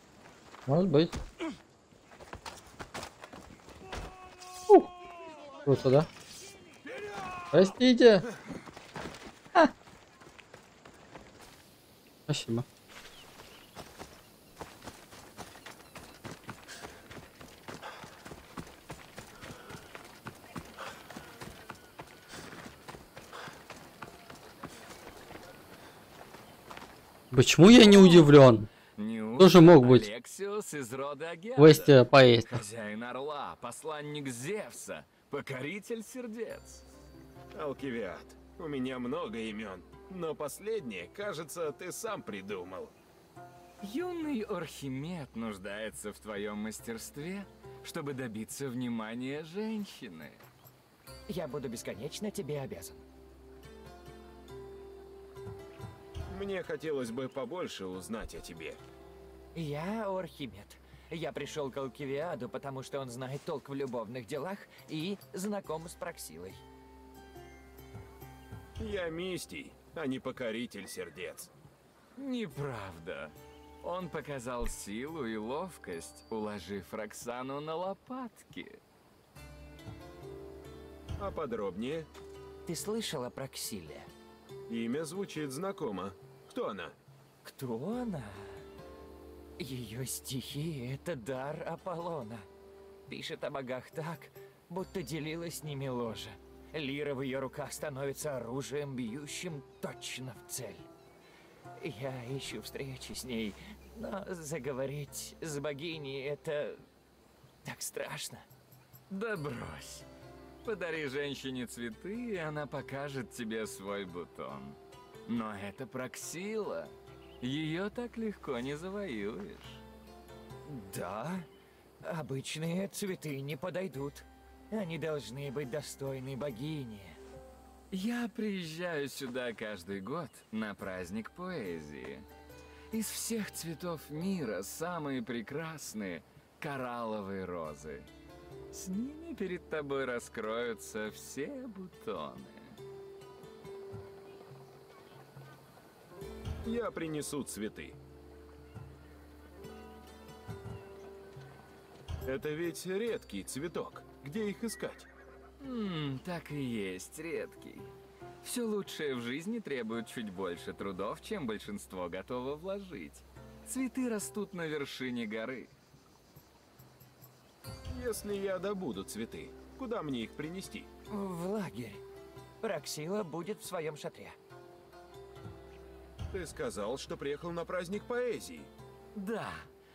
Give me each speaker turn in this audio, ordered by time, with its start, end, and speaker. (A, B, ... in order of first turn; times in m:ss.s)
0:00.7-0:01.2 A
0:05.6-0:06.1 A
0:07.5-0:08.3 A
0:12.3-0:12.6 A
0:27.3-0:28.7 A
0:29.0-0:36.8 B
0:29.4-0:30.1 A
0:31.6-0:32.6 A
0:37.5-0:42.9 C
0:43.8-0:50.4 B
0:51.3-0:53.0 D
0:56.3-0:58.8 C
0:59.6-1:06.6 D
1:08.8-1:11.5 C
1:12.2-1:18.8 B
1:21.2-1:22.1 C
1:22.7-1:24.1 D
1:24.7-1:27.0 C
1:27.4-1:28.6 D
1:29.6-1:32.5 D
1:33.1-1:40.9 D
1:41.8-1:46.9 D
1:47.6-1:48.5 D
1:49.1-1:50.1 B
1:50.6-1:59.8 B
2:00.7-2:01.5 D
2:02.0-2:07.2 D
2:07.9-2:12.3 B
2:12.9-2:18.1 B
2:18.7-2:22.8 B
2:26.6-2:28.0 C
2:32.2-2:35.1 C
2:35.6-2:37.9 B
2:38.4-2:45.7 B
2:47.9-2:50.9 C
2:51.1-2:52.0 D
2:52.6-2:54.4 D
2:56.3-2:58.7 C
2:59.2-2:59.7 B